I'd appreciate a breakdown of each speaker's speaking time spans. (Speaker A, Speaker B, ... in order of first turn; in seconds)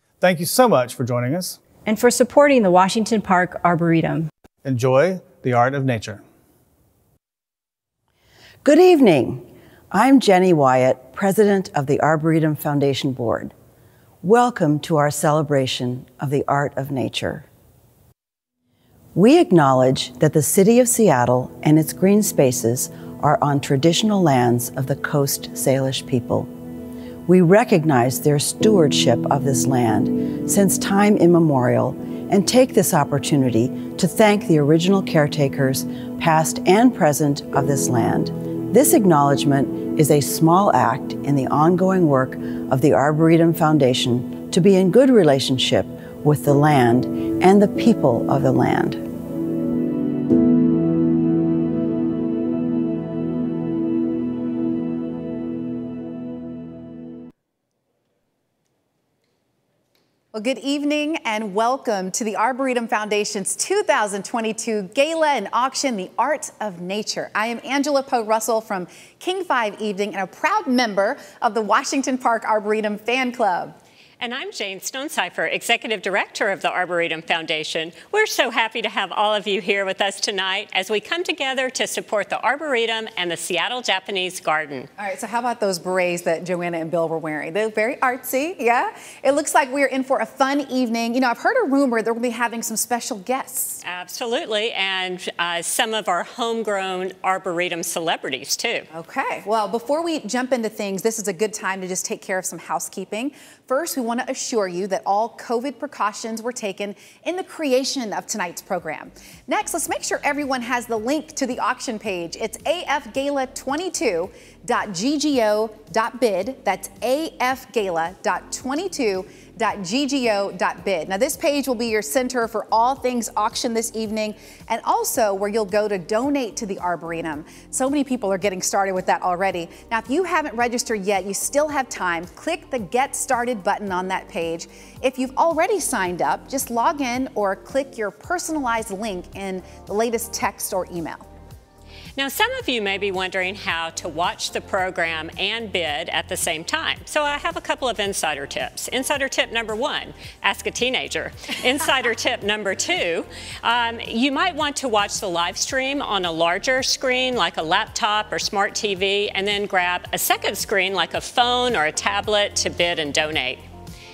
Speaker A: 0.2-1.6, 4.6-6.2
Speaker B: 1.8-4.3
Speaker C: 8.6-13.5, 14.2-17.4, 19.1-26.5, 27.2-49.0
Speaker D: 60.3-73.8, 85.0-93.8, 98.9-141.2
Speaker E: 74.2-84.9, 93.8-98.9, 142.2-163.6